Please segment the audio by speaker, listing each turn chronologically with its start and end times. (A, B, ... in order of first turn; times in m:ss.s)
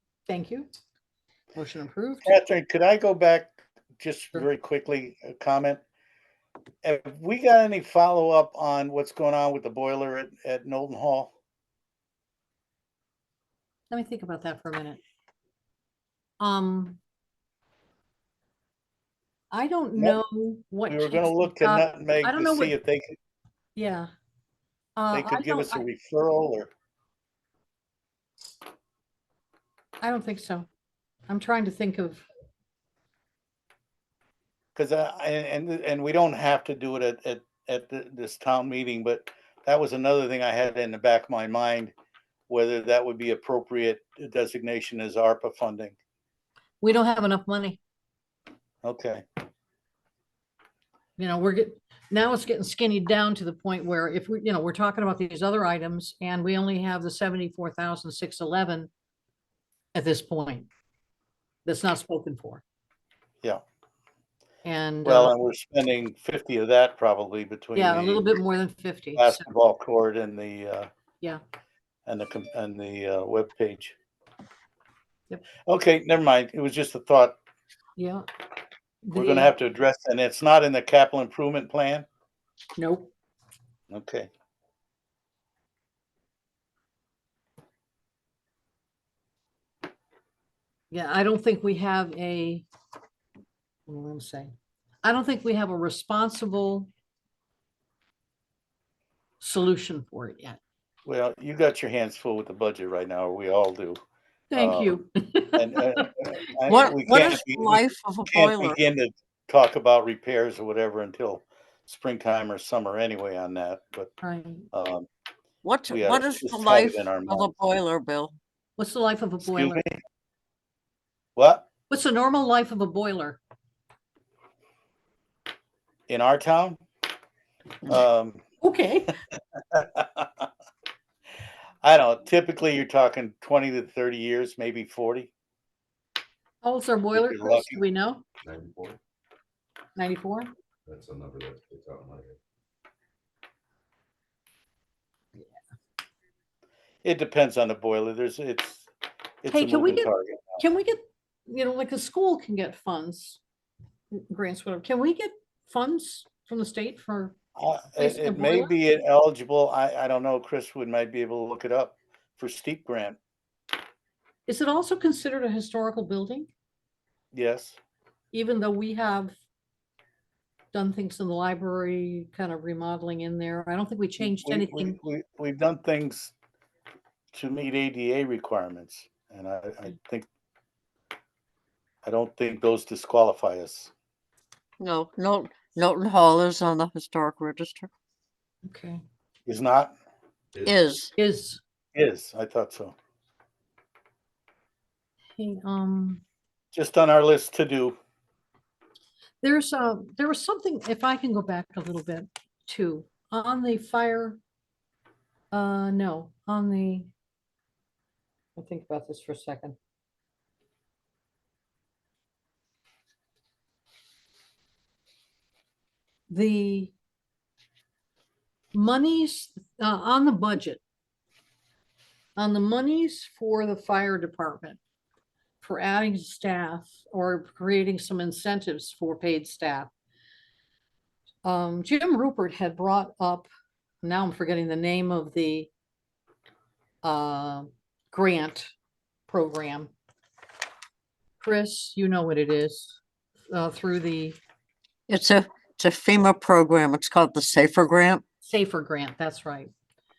0:00.3-0:00.7 A
0:01.6-0:02.3 A
0:02.2-0:05.8 B
0:06.8-0:11.3 B
0:13.9-0:15.0 A
0:16.4-0:17.0 A
0:19.5-0:22.8 A
0:20.0-0:20.2 B
0:20.9-0:23.2 B
0:23.8-0:24.1 A
0:25.0-0:25.8 A
0:25.1-0:26.7 B
0:30.0-0:30.7 A
0:31.3-0:32.2 A
0:34.8-0:41.9 B
0:42.5-0:46.0 B
0:46.8-0:47.8 A
0:48.8-0:49.2 B
0:51.2-0:58.9 A
1:00.0-1:00.7 A
1:01.6-1:02.6 A
1:04.6-1:05.3 A
1:05.0-1:08.4 B
1:07.8-1:09.4 A
1:09.2-1:10.9 B
1:12.1-1:14.0 B
1:15.7-1:17.4 B
1:18.0-1:18.2 A
1:19.0-1:19.5 A
1:19.1-1:22.1 B
1:22.8-1:23.1 A
1:23.9-1:24.3 B
1:30.9-1:32.7 A
1:33.9-1:34.5 A
1:35.0-1:36.9 A
1:39.4-1:40.6 A
1:41.1-1:44.0 B
1:44.5-1:46.1 A
1:44.5-1:45.0 B
1:45.6-1:54.1 B
1:46.7-1:48.8 C
1:54.2-1:54.7 A
1:54.7-1:55.1 B
1:55.6-1:58.3 C
1:55.9-1:57.6 B
1:58.8-1:59.8 A
1:59.4-1:59.9 B
2:01.4-2:01.7 B
2:01.9-2:03.4 A
2:06.1-2:06.8 B
2:07.9-2:08.4 B
2:08.6-2:09.1 A
2:09.7-2:10.5 B
2:11.8-2:15.3 B
2:16.6-2:18.2 A
2:17.1-2:17.8 B
2:18.4-2:19.0 D
2:20.0-2:20.5 A
2:20.8-2:22.4 D
2:27.0-2:28.9 B
2:29.4-2:30.6 B
2:29.5-2:33.4 A
2:34.1-2:37.3 A
2:37.6-2:43.2 B
2:38.0-2:38.7 A
2:44.4-2:46.5 A
2:47.3-2:47.8 B
2:48.3-2:49.3 A
2:50.7-2:55.0 A
2:54.2-2:56.3 B
2:57.3-3:00.3 B
3:02.0-3:03.9 B
3:04.8-3:07.9 C
3:08.6-3:09.0 A
3:09.5-3:09.9 B
3:10.5-3:11.1 D
3:10.6-3:11.1 C
3:11.2-3:11.6 A
3:11.9-3:12.9 B
3:15.4-3:16.2 A
3:16.7-3:18.0 B
3:19.4-3:24.4 A
3:25.5-3:27.1 A
3:28.6-3:29.8 A
3:36.3-3:36.9 A
3:38.7-3:40.8 A
3:42.4-3:44.8 A
3:45.6-3:49.9 A
3:51.4-3:53.5 A
3:54.0-3:55.7 A
3:57.0-3:58.7 A
3:59.3-3:59.9 A
4:01.4-4:03.0 A
4:03.5-4:04.4 A
4:05.1-4:08.2 C
4:08.4-4:09.7 A